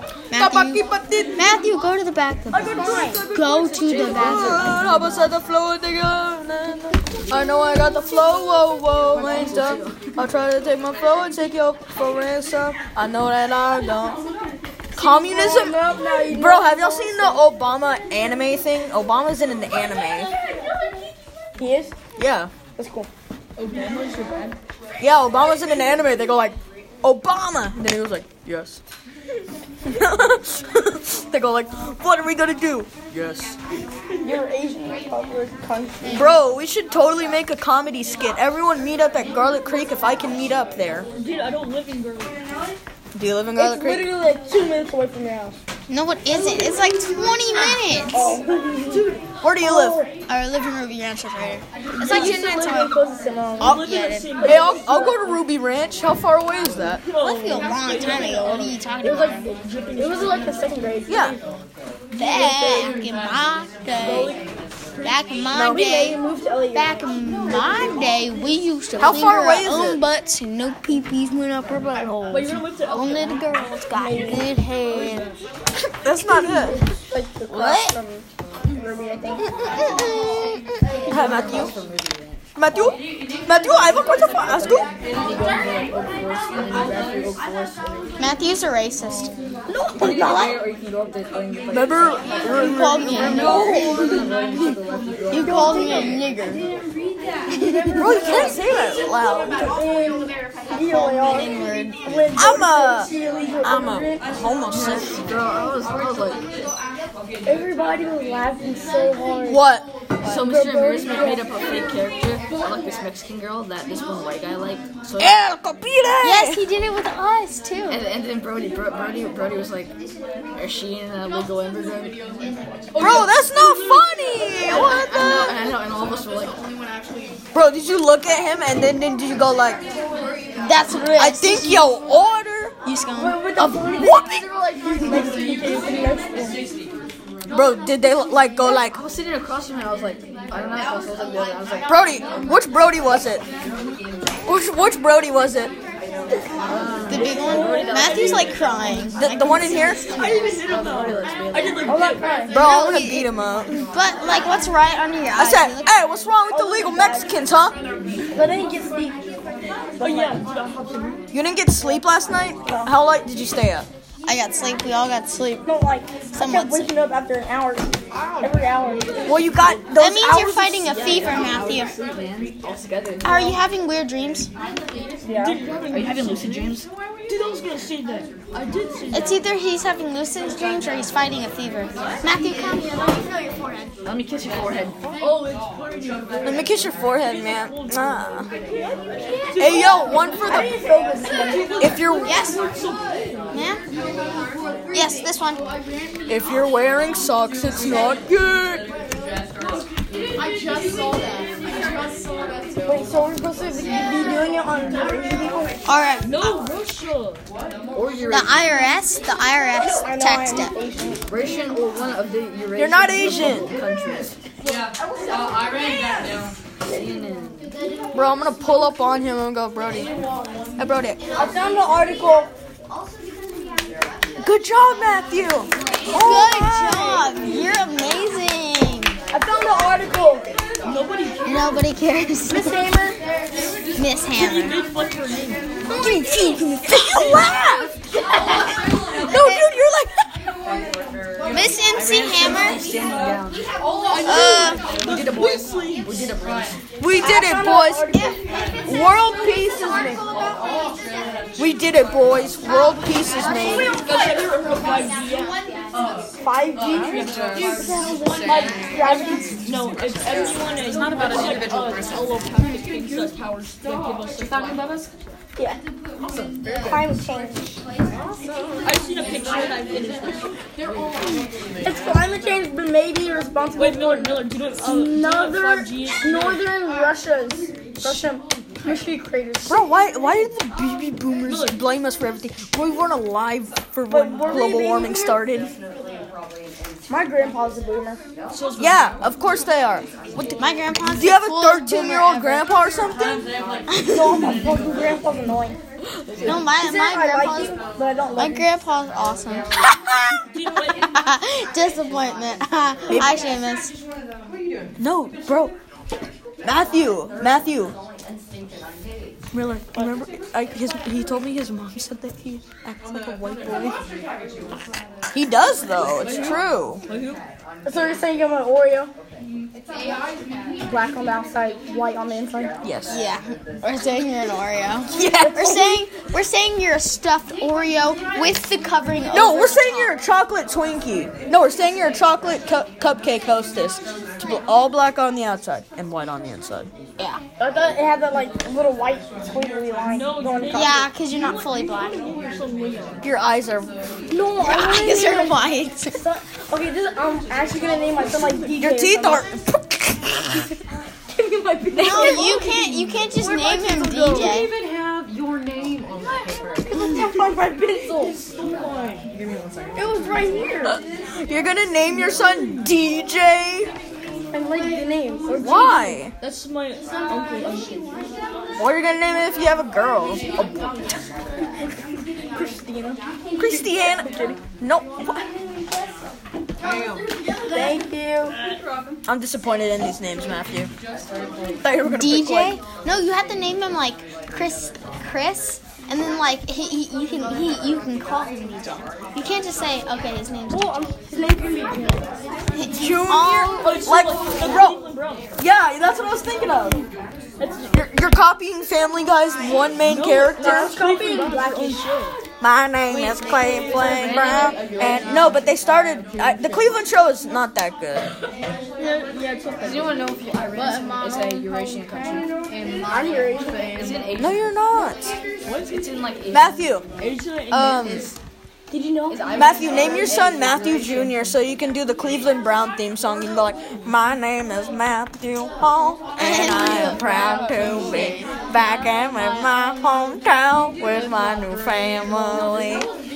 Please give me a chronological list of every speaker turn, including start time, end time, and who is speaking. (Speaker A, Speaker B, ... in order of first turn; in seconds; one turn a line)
Speaker A: 0.3-4.7
Speaker B: 0.3-1.5
Speaker C: 2.5-3.3
Speaker D: 2.9-4.0
Speaker E: 3.8-5.3
Speaker B: 4.0-14.2
Speaker E: 9.1-10.2
Speaker B: 14.9-20.3
Speaker C: 14.9-17.4
Speaker C: 21.6-21.9
Speaker B: 22.2-22.5
Speaker C: 22.8-23.1
Speaker D: 23.6-24.6
Speaker B: 25.0-28.8
Speaker B: 29.8-33.6
Speaker C: 34.2-36.3
Speaker B: 36.1-41.1
Speaker D: 41.1-42.4
Speaker B: 43.1-44.1
Speaker C: 43.5-45.6
Speaker A: 45.9-48.4
Speaker C: 48.1-50.1
Speaker B: 49.4-50.0
Speaker A: 50.3-53.0
Speaker C: 51.9-53.8
Speaker B: 52.0-52.7
Speaker A: 53.6-54.3
Speaker D: 53.6-54.9
Speaker C: 54.4-55.3
Speaker B: 54.4-57.0
Speaker D: 56.9-58.8
Speaker A: 57.2-59.5
Speaker C: 59.0-61.4
Speaker D: 59.6-60.8
Speaker B: 61.1-61.4
Speaker A: 62.1-64.4
Speaker C: 62.2-63.0
Speaker D: 64.0-64.4
Speaker A: 65.0-66.2
Speaker C: 65.5-68.0
Speaker A: 66.7-75.3
Speaker B: 69.0-70.0
Speaker D: 72.3-73.5
Speaker C: 73.9-74.5
Speaker D: 74.9-75.4
Speaker B: 76.0-76.8
Speaker C: 76.4-79.5
Speaker A: 77.5-77.9
Speaker A: 79.6-80.8
Speaker E: 81.0-82.4
Speaker B: 81.1-81.8
Speaker B: 82.5-84.9
Speaker E: 84.2-88.2
Speaker A: 88.2-89.3
Speaker C: 89.7-90.6
Speaker E: 89.9-96.0
Speaker B: 91.7-94.1
Speaker A: 92.5-94.0
Speaker A: 95.3-96.6
Speaker C: 95.3-96.2
Speaker A: 97.5-98.2
Speaker C: 97.5-104.3
Speaker B: 98.0-99.6
Speaker A: 100.9-102.0
Speaker B: 102.3-105.2
Speaker E: 104.7-106.4
Speaker C: 107.4-109.6
Speaker B: 109.4-109.9
Speaker E: 110.2-115.3
Speaker C: 110.2-111.5
Speaker B: 115.2-116.6
Speaker A: 116.2-118.0
Speaker E: 117.9-119.9
Speaker E: 120.5-122.2
Speaker D: 122.9-124.5
Speaker B: 123.0-125.7
Speaker E: 124.6-126.7
Speaker B: 127.5-129.8
Speaker A: 130.6-131.8
Speaker B: 131.0-132.7
Speaker A: 132.8-133.5
Speaker C: 133.2-136.6
Speaker B: 133.6-134.5
Speaker B: 137.5-139.0
Speaker E: 138.8-141.9
Speaker B: 141.9-143.4
Speaker B: 144.5-145.7
Speaker E: 146.6-149.1
Speaker A: 147.1-150.1
Speaker C: 147.2-147.9
Speaker B: 149.2-150.1
Speaker D: 150.1-152.5
Speaker E: 150.3-152.0
Speaker C: 151.8-152.5
Speaker A: 152.5-153.3
Speaker B: 152.5-153.8
Speaker A: 153.9-155.9
Speaker B: 155.4-157.8
Speaker C: 156.5-157.3
Speaker C: 158.3-159.2
Speaker C: 160.0-160.4
Speaker D: 160.0-161.3
Speaker B: 161.3-163.9
Speaker C: 162.7-162.9
Speaker A: 164.2-165.7
Speaker C: 165.6-169.3
Speaker A: 166.3-166.9
Speaker F: 168.2-168.7
Speaker B: 169.2-170.9
Speaker A: 169.9-171.9
Speaker E: 170.8-173.6
Speaker A: 173.2-174.5
Speaker C: 175.2-175.7
Speaker D: 175.3-179.4
Speaker E: 175.9-176.9
Speaker A: 179.1-183.9
Speaker E: 184.0-185.2
Speaker D: 185.2-190.4
Speaker B: 186.4-188.5
Speaker B: 189.6-190.8
Speaker C: 190.1-191.9
Speaker D: 191.1-193.7
Speaker B: 191.8-192.3
Speaker A: 192.2-192.6
Speaker A: 193.5-193.8
Speaker A: 194.9-195.6
Speaker B: 196.3-198.9
Speaker C: 202.8-205.8
Speaker A: 205.8-206.7
Speaker D: 206.2-207.4
Speaker E: 207.9-208.7
Speaker A: 208.3-210.7
Speaker C: 209.9-211.2
Speaker E: 211.2-214.4
Speaker B: 212.8-213.7
Speaker E: 216.9-217.7
Speaker B: 218.1-220.1
Speaker B: 220.8-221.2
Speaker C: 221.3-222.5
Speaker B: 224.4-227.3
Speaker A: 226.1-229.2
Speaker C: 229.3-230.5
Speaker D: 230.8-231.9
Speaker A: 231.4-232.9
Speaker C: 232.5-233.2
Speaker A: 233.9-234.8
Speaker D: 234.3-235.7
Speaker C: 236.0-237.0
Speaker B: 236.8-238.0
Speaker B: 239.2-240.1
Speaker A: 239.3-239.6
Speaker A: 241.5-242.8
Speaker E: 241.7-243.7
Speaker D: 244.1-246.3
Speaker A: 244.2-244.8
Speaker E: 244.9-246.8
Speaker B: 247.0-248.3
Speaker C: 247.2-248.4
Speaker B: 248.8-250.2
Speaker B: 251.6-254.0
Speaker D: 253.7-255.6
Speaker C: 256.4-259.6
Speaker D: 256.9-265.1
Speaker F: 256.9-262.4
Speaker F: 264.6-265.0
Speaker C: 266.7-267.8
Speaker F: 268.1-269.0
Speaker D: 268.8-270.5
Speaker F: 271.7-271.9
Speaker C: 271.8-279.8
Speaker D: 273.8-276.7
Speaker B: 279.6-285.7
Speaker D: 281.4-281.8
Speaker C: 284.1-285.4
Speaker C: 287.1-288.2
Speaker D: 288.5-289.1
Speaker B: 288.8-293.5
Speaker A: 290.6-292.7
Speaker A: 293.9-294.5
Speaker C: 294.0-295.8
Speaker A: 296.4-297.8
Speaker C: 296.5-298.7
Speaker A: 298.3-299.7
Speaker D: 300.5-301.1
Speaker A: 300.8-303.9
Speaker B: 303.1-303.4
Speaker F: 304.5-304.9
Speaker B: 305.0-305.7
Speaker B: 306.6-308.0
Speaker B: 309.5-314.0
Speaker B: 315.3-317.0
Speaker D: 316.1-317.4
Speaker C: 317.8-319.1
Speaker C: 320.8-322.7
Speaker B: 322.8-323.1
Speaker A: 323.1-330.2
Speaker B: 325.1-326.0
Speaker B: 329.3-336.9
Speaker C: 337.6-341.0
Speaker D: 340.0-343.2
Speaker A: 340.7-342.3
Speaker B: 343.2-343.9
Speaker C: 344.3-349.4
Speaker A: 344.6-346.2
Speaker D: 347.4-348.8
Speaker B: 348.8-350.7
Speaker C: 351.3-352.8
Speaker B: 351.9-352.6
Speaker A: 352.0-354.7
Speaker D: 353.1-354.5
Speaker F: 354.1-357.0
Speaker C: 356.9-358.4
Speaker D: 358.2-359.3
Speaker F: 359.3-360.5
Speaker C: 359.9-361.0
Speaker B: 360.8-363.9
Speaker D: 362.4-362.8
Speaker C: 364.5-366.2
Speaker B: 365.6-366.3
Speaker D: 366.4-368.0
Speaker B: 368.8-370.8
Speaker C: 372.5-374.6
Speaker B: 373.6-375.4
Speaker F: 376.8-377.3
Speaker C: 377.7-378.5
Speaker F: 378.6-379.2
Speaker B: 379.2-380.9
Speaker F: 381.2-381.8
Speaker B: 381.8-382.8
Speaker A: 382.0-390.9
Speaker C: 390.7-392.4
Speaker A: 392.8-394.1
Speaker B: 392.8-395.0
Speaker D: 393.7-395.5
Speaker B: 395.6-397.0
Speaker D: 397.6-398.0
Speaker B: 397.9-401.0
Speaker D: 400.0-402.4
Speaker C: 400.5-402.2
Speaker B: 402.6-408.3
Speaker D: 403.1-404.7
Speaker E: 403.7-407.0
Speaker D: 409.0-410.3
Speaker E: 409.8-412.5
Speaker C: 413.1-414.2
Speaker E: 413.3-414.7
Speaker B: 414.4-415.4
Speaker D: 415.6-416.1
Speaker E: 415.8-416.7
Speaker B: 416.5-417.0
Speaker D: 417.2-418.4
Speaker B: 417.7-418.3
Speaker C: 418.9-420.1
Speaker E: 419.3-421.5
Speaker B: 419.5-433.1
Speaker A: 426.4-427.1
Speaker D: 426.9-427.7